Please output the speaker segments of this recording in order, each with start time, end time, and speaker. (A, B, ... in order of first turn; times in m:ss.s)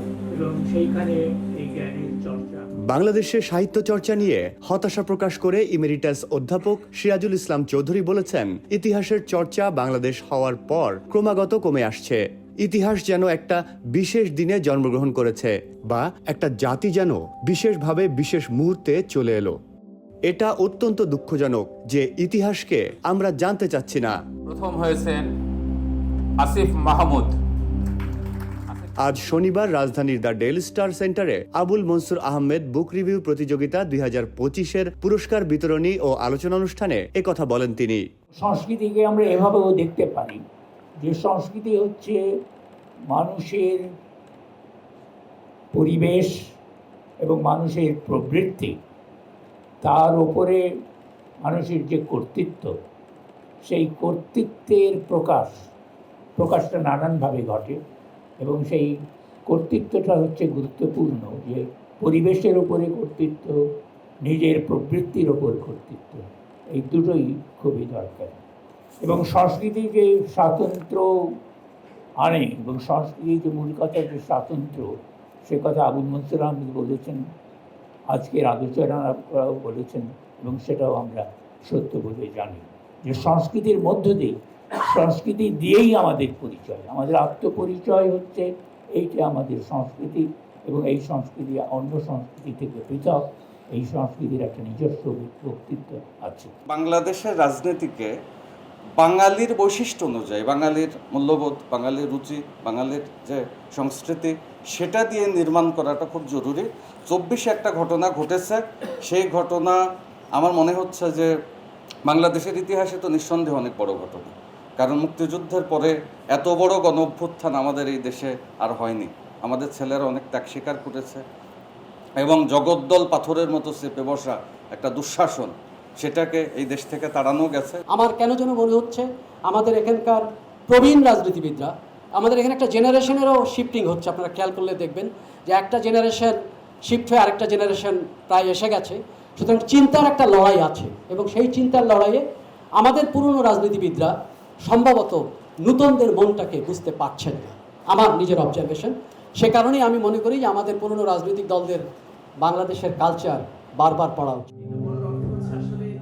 0:00.3-0:02.7 A
0:02.9-0:19.6 B
0:20.3-0:24.2 B
0:24.4-0:25.4 C
0:26.4-0:27.4 C
0:29.0-0:38.0 B
0:38.4-0:40.4 A
0:41.0-0:42.2 A
0:43.1-0:43.8 A
0:45.7-0:46.4 A
0:47.2-0:48.8 A
0:49.8-0:50.6 A
0:51.4-0:52.7 A
0:53.6-0:55.6 A
0:56.4-0:57.8 A
0:58.4-0:58.9 A
0:59.5-1:03.6 A
1:04.2-1:08.4 A
1:09.0-1:11.4 A
1:12.2-1:17.2 A
1:18.1-1:36.5 A
1:36.7-1:38.1 D
1:39.0-1:49.8 D
1:50.4-1:51.3 D
1:52.0-2:01.2 D
2:02.2-2:07.8 D
2:07.9-2:22.2 E
2:22.8-2:24.1 E
2:24.6-2:31.8 E
2:32.4-2:35.8 E